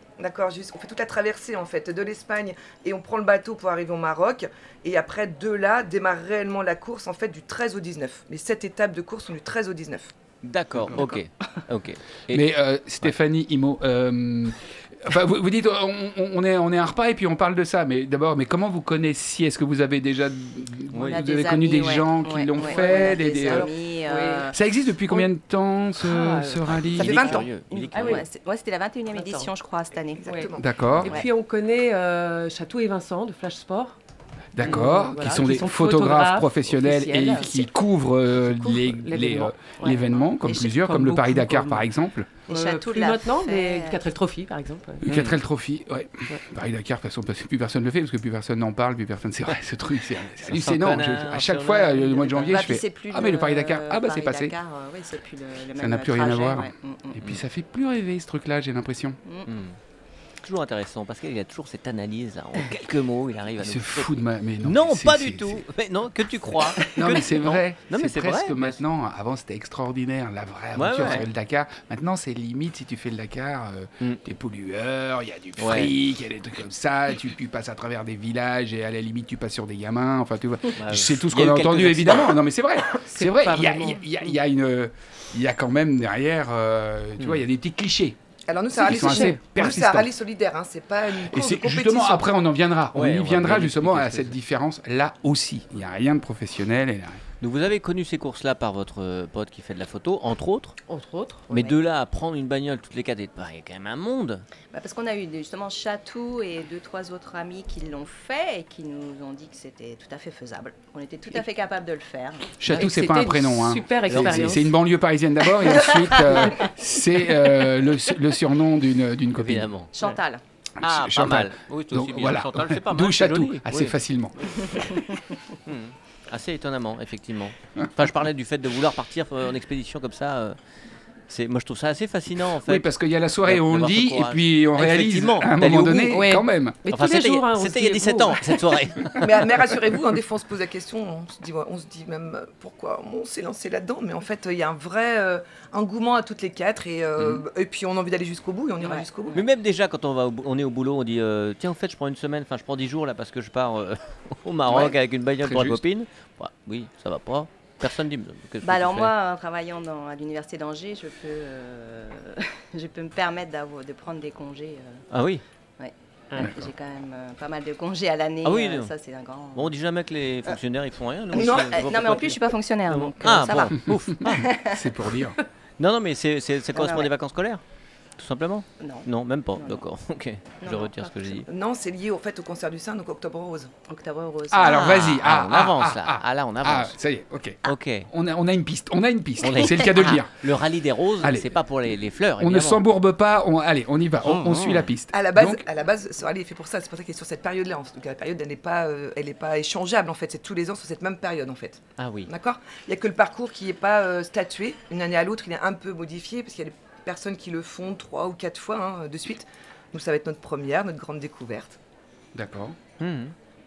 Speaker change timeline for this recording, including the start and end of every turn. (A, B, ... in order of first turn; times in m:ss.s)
0:00.2-0:10.1 A
0:10.4-0:12.5 B
0:11.0-0:11.2 C
0:12.3-0:23.7 D
0:20.9-0:21.2 B
0:21.1-0:24.6 C
0:22.8-0:23.6 A
0:23.5-0:24.5 E
0:24.5-0:27.2 D
0:26.0-0:26.8 E
0:26.9-0:28.2 B
0:27.0-0:27.5 A
0:27.0-0:30.3 C
0:27.9-0:28.3 E
0:29.1-0:29.5 E
0:30.2-0:30.7 A
0:30.6-0:31.1 D
0:31.0-0:34.0 E
0:34.6-0:42.3 D
0:34.6-0:37.7 E
0:38.5-0:41.9 E
0:40.4-0:40.7 C
0:42.5-0:45.0 E
0:42.5-0:44.0 C
0:45.0-0:54.5 D
0:45.0-0:45.4 B
0:50.4-0:52.7 B
0:52.5-0:57.2 C
0:55.8-0:59.2 D
0:59.5-0:59.8 B
1:00.4-1:08.8 B
1:03.6-1:05.6 D
1:06.9-1:28.2 D
1:10.8-1:11.3 B
1:15.6-1:15.9 B
1:20.8-1:22.4 B
1:23.1-1:24.3 E
1:28.5-1:32.2 A
1:28.7-1:30.1 D
1:29.0-1:29.4 E
1:31.2-1:37.2 D
1:32.9-1:34.4 B
1:37.4-1:40.8 B
1:40.9-1:41.7 E
1:41.5-1:44.4 B
1:44.7-1:52.6 C
1:52.6-1:59.7 D
1:52.7-1:54.7 E
1:54.1-1:54.5 B
1:55.7-1:56.7 C
1:59.3-1:59.9 B
1:59.9-2:00.4 C
2:00.8-2:04.8 D
2:00.8-2:04.0 B
2:05.7-2:10.6 B
2:11.3-2:12.9 B
2:12.6-2:16.8 D
2:13.4-2:16.3 B
2:16.1-2:18.7 E
2:16.9-2:19.5 B
2:19.2-2:29.4 A
2:28.9-2:29.4 C
2:29.3-2:39.1 B
2:35.4-2:35.8 D
2:38.6-2:45.0 C
2:45.1-2:45.4 B
2:45.8-2:49.7 C
2:46.4-2:46.7 D
2:48.4-2:48.9 B
2:49.5-2:54.5 B
2:51.3-2:54.9 C
2:51.3-2:52.2 A
2:54.6-2:55.4 D
2:55.8-2:57.6 B
2:56.7-2:57.1 C
2:58.2-3:01.5 B
2:58.8-2:59.8 C
3:00.6-3:01.4 C
3:01.5-3:03.7 A
3:03.9-3:04.8 C
3:04.5-3:10.3 D
3:04.6-3:06.9 B
3:07.6-3:08.1 B
3:09.4-3:12.8 B
3:11.2-3:11.6 D
3:12.4-3:15.6 D
3:14.2-3:14.9 B
3:15.1-3:31.8 A
3:22.0-3:22.3 B
3:32.3-3:32.8 D
3:33.0-3:33.3 B